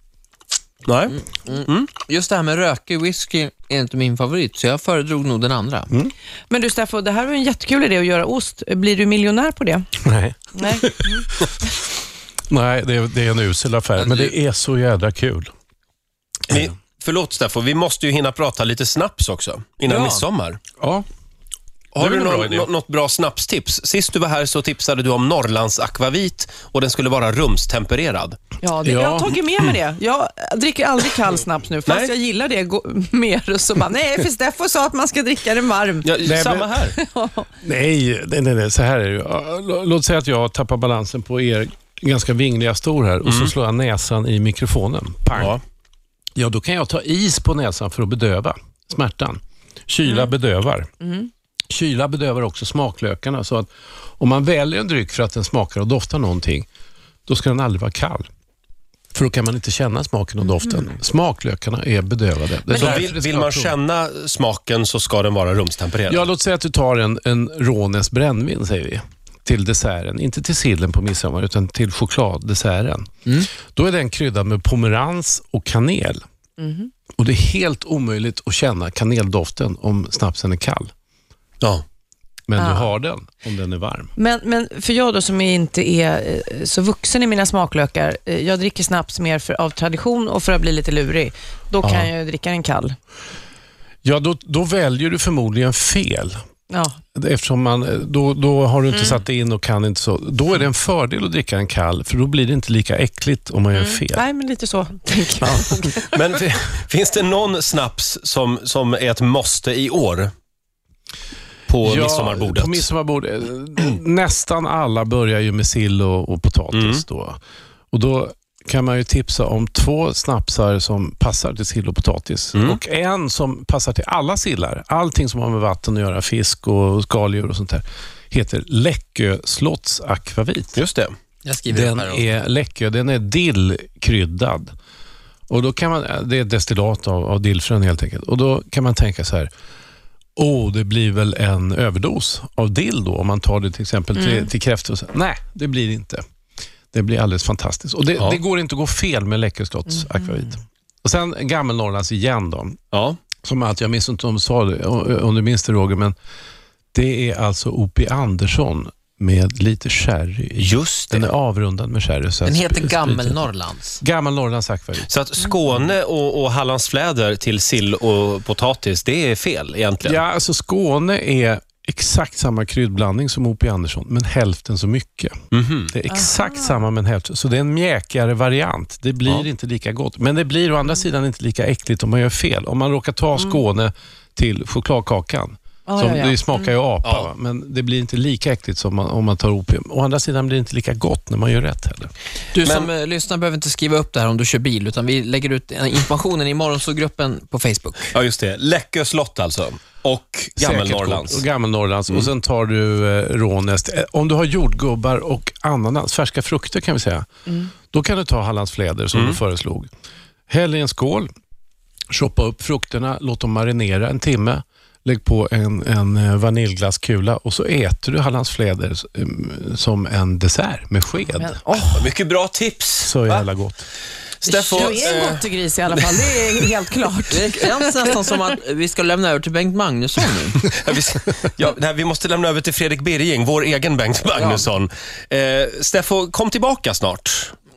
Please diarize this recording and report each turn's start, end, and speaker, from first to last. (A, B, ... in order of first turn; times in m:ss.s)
0:00.8-0:01.9 A
0:01.4-0:05.9 B
0:06.5-0:09.9 C
0:10.0-0:11.6 D
0:10.5-0:11.3 C
0:12.5-0:15.5 D
0:14.0-0:14.3 A
0:16.5-0:20.6 A
0:19.9-0:20.2 B
0:20.8-0:21.0 D
0:21.9-0:28.4 A
0:22.0-0:22.7 D
0:28.6-0:36.1 C
0:28.8-0:29.4 D
0:36.0-0:37.0 A
0:36.2-0:36.8 D
0:36.9-0:37.5 C
0:37.6-0:45.6 D
0:43.2-0:43.5 A
0:45.3-0:45.6 A
0:46.4-0:50.9 D
0:50.0-0:50.3 C
0:51.7-0:56.7 D
0:57.3-0:58.3 D
0:59.1-1:03.8 D
1:02.7-1:03.1 B
1:02.7-1:06.2 A
1:06.1-1:16.2 D
1:16.6-1:16.9 C
1:17.2-1:20.9 D
1:22.5-1:24.1 D
1:22.6-1:22.9 C
1:24.2-1:33.0 C
1:31.8-1:32.1 D
1:34.0-1:36.4 D
1:36.7-1:37.0 C
1:37.1-1:44.2 D
1:38.9-1:39.2 C
1:43.7-1:46.1 C
1:46.1-1:50.3 A
1:51.7-1:52.8 A
1:51.8-1:57.4 D
1:56.7-1:57.0 A
1:57.9-2:10.8 D
2:02.5-2:02.8 A
2:10.7-2:11.1 A
2:11.4-2:12.3 B
2:11.7-2:14.7 D
2:15.5-2:19.5 D
2:20.4-2:26.2 D
2:24.2-2:24.5 C
2:26.9-2:32.8 D
2:32.9-2:33.2 A
2:33.4-2:36.1 D
2:36.9-2:43.4 D
2:40.6-2:41.3 A
2:42.4-2:44.0 B
2:44.0-2:45.1 D
2:45.1-2:50.2 A
2:50.0-2:55.3 D
2:55.5-2:55.9 A
2:55.9-3:12.1 D
2:56.1-2:56.8 C
3:05.9-3:06.7 C
3:07.0-3:07.3 A
3:12.5-3:18.1 B
3:12.6-3:12.9 A
3:18.1-3:21.4 A
3:20.6-3:29.9 D
3:29.1-3:29.4 A
3:30.5-3:31.3 D
3:32.1-3:41.6 D
3:41.4-3:42.1 C
3:41.9-3:43.4 A
3:43.0-3:43.8 D
3:44.4-3:46.4 A
3:44.5-3:48.1 C
3:44.7-3:45.2 B
3:47.3-3:50.7 B
3:50.6-3:57.5 A